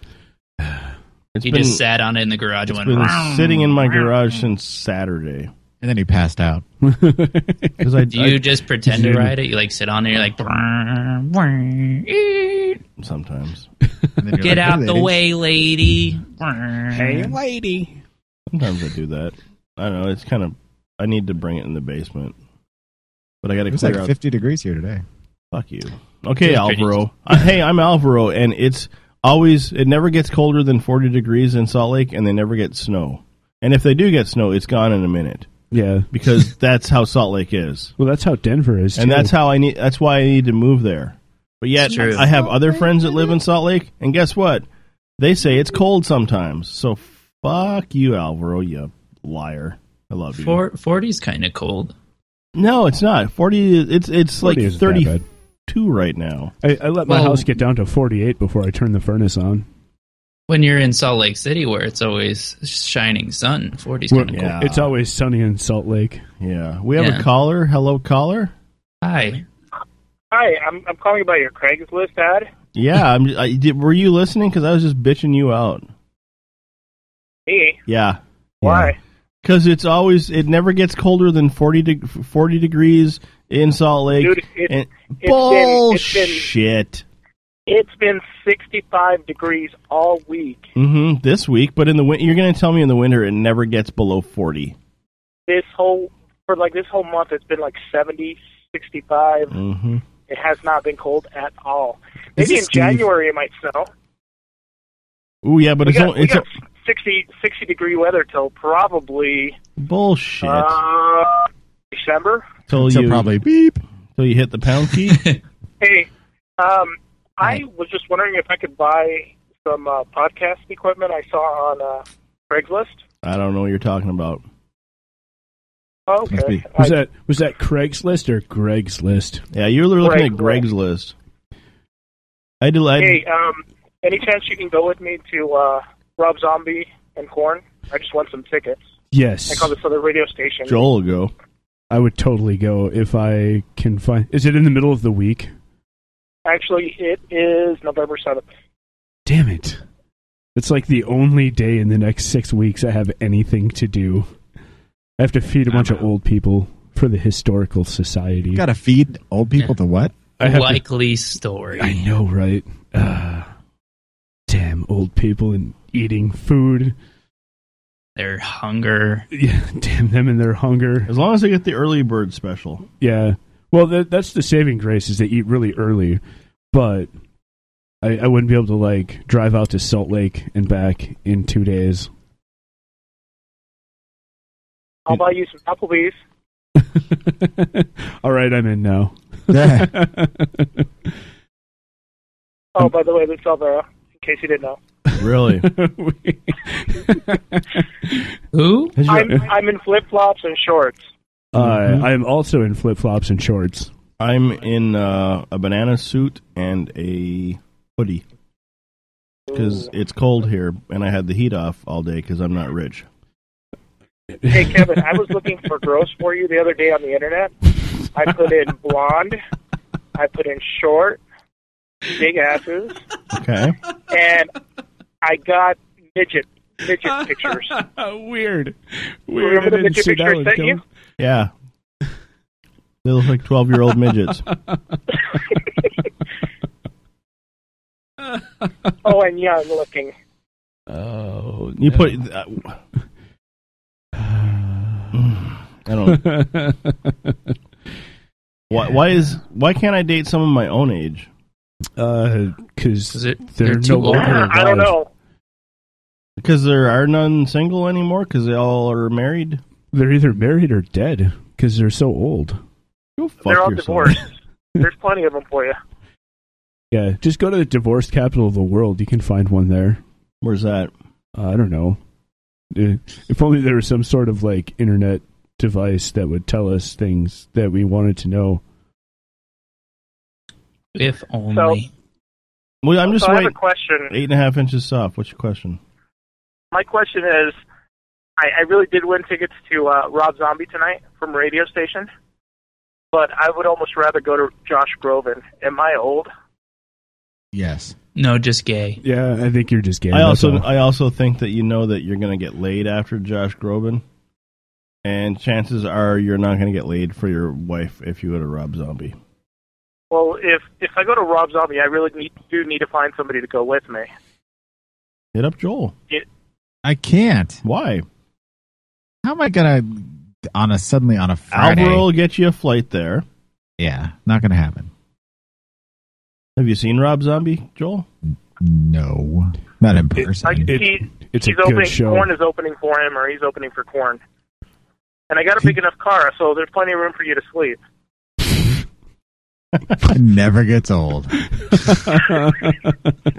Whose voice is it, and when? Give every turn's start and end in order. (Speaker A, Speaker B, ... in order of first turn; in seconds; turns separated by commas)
Speaker A: 0.6-0.9, Speaker B: 1.4-1.8, Speaker C: 1.4-4.3, Speaker B: 2.7-5.5, Speaker D: 5.8-6.6, Speaker A: 6.8-7.8, Speaker B: 7.8-8.4, Speaker C: 8.1-12.8, Speaker A: 8.9-9.3, Speaker B: 13.0-13.7, Speaker D: 14.2-15.2, Speaker C: 14.4-17.3, Speaker A: 16.9-18.0, Speaker B: 18.5-22.4, Speaker B: 23.4-24.1, Speaker D: 23.7-25.0, Speaker B: 25.5-35.5, Speaker C: 26.4-27.0, Speaker A: 35.7-36.1, Speaker B: 36.1-37.9, Speaker A: 38.0-39.3, Speaker B: 39.0-44.6, Speaker C: 41.9-42.4, Speaker B: 45.2-50.6, Speaker C: 50.4-51.9, Speaker B: 52.5-55.1, Speaker A: 54.4-55.2, Speaker B: 55.7-56.5, Speaker A: 56.6-59.6, Speaker C: 57.1-57.5, Speaker C: 60.5-64.6, Speaker A: 64.1-66.2, Speaker B: 64.3-64.9, Speaker B: 66.4-68.5, Speaker C: 67.0-67.2, Speaker C: 69.0-69.4, Speaker E: 70.3-72.5, Speaker B: 72.7-75.9, Speaker E: 77.5-77.8, Speaker B: 77.9-78.9, Speaker E: 78.6-79.0, Speaker B: 79.4-87.0, Speaker E: 84.2-86.5, Speaker E: 87.7-90.7, Speaker B: 90.8-94.8, Speaker E: 95.5-99.5, Speaker B: 99.5-100.0, Speaker E: 100.3-103.9, Speaker D: 102.4-103.0, Speaker A: 102.5-103.0, Speaker B: 105.4-106.4, Speaker E: 105.8-109.5, Speaker B: 109.8-110.8, Speaker E: 110.4-112.5, Speaker B: 112.7-113.3, Speaker D: 112.7-113.8, Speaker B: 114.2-115.2, Speaker E: 115.8-116.1, Speaker E: 116.6-123.0, Speaker B: 123.2-124.4, Speaker E: 126.1-127.0, Speaker D: 126.3-126.6, Speaker A: 126.8-129.4, Speaker B: 129.5-131.1, Speaker E: 130.0-130.6, Speaker B: 132.6-133.2, Speaker E: 133.0-138.8, Speaker A: 139.1-139.7, Speaker E: 139.5-140.8, Speaker B: 140.7-141.3, Speaker A: 141.9-145.5, Speaker E: 146.4-148.4, Speaker A: 149.3-149.8, Speaker A: 150.6-154.3, Speaker A: 155.2-158.6, Speaker C: 155.7-156.0, Speaker D: 158.5-160.1, Speaker A: 160.4-160.8, Speaker C: 160.4-162.0, Speaker A: 161.8-163.5, Speaker A: 164.5-166.9, Speaker C: 168.2-169.3, Speaker A: 169.3-171.1, Speaker B: 171.1-172.9, Speaker A: 173.0-176.2, Speaker A: 176.7-177.1, Speaker A: 178.0-182.1, Speaker E: 185.1-186.2, Speaker A: 186.9-190.8, Speaker D: 189.5-189.9, Speaker E: 192.8-194.8, Speaker B: 195.2-195.7, Speaker A: 195.6-198.2, Speaker C: 198.5-199.0, Speaker B: 199.0-199.4, Speaker E: 199.0-201.0, Speaker A: 201.5-203.9, Speaker B: 201.5-202.1, Speaker B: 204.2-208.2, Speaker E: 209.5-209.9, Speaker B: 209.5-213.1, Speaker A: 214.4-215.0, Speaker E: 214.5-217.5, Speaker E: 218.1-219.4, Speaker E: 220.1-221.2, Speaker E: 222.1-223.0, Speaker B: 223.3-223.8, Speaker E: 224.1-224.5, Speaker E: 225.2-227.7, Speaker A: 227.0-230.8, Speaker E: 229.4-230.8, Speaker B: 231.2-231.5, Speaker B: 233.0-234.4, Speaker E: 239.0-240.1, Speaker A: 240.9-242.2, Speaker B: 241.8-242.8, Speaker A: 244.2-245.1, Speaker B: 245.1-246.2, Speaker A: 246.1-247.5, Speaker B: 248.7-251.3, Speaker A: 252.0-254.9, Speaker C: 253.1-254.6, Speaker E: 254.1-255.1, Speaker B: 256.4-259.6, Speaker A: 259.9-262.6, Speaker B: 263.2-264.2, Speaker E: 263.4-265.8, Speaker A: 266.9-270.0, Speaker B: 270.4-270.9, Speaker A: 271.4-272.0, Speaker A: 272.7-278.6, Speaker C: 280.9-281.9, Speaker E: 281.5-281.8, Speaker B: 282.8-283.5, Speaker E: 283.0-284.1, Speaker B: 284.1-285.8, Speaker E: 286.7-287.6, Speaker E: 288.4-292.1, Speaker E: 293.1-296.3, Speaker D: 297.5-297.9, Speaker C: 298.1-299.0, Speaker A: 299.0-300.6, Speaker B: 300.1-304.0, Speaker B: 305.0-309.1, Speaker E: 310.1-314.1, Speaker B: 315.3-315.9, Speaker D: 316.8-317.6, Speaker B: 317.6-318.0, Speaker D: 319.2-322.1, Speaker B: 321.5-323.2, Speaker D: 323.8-324.9, Speaker B: 326.6-328.1, Speaker D: 328.2-330.7, Speaker E: 330.4-334.2, Speaker A: 330.5-332.3, Speaker E: 335.3-337.8, Speaker D: 340.1-341.5, Speaker A: 341.6-343.1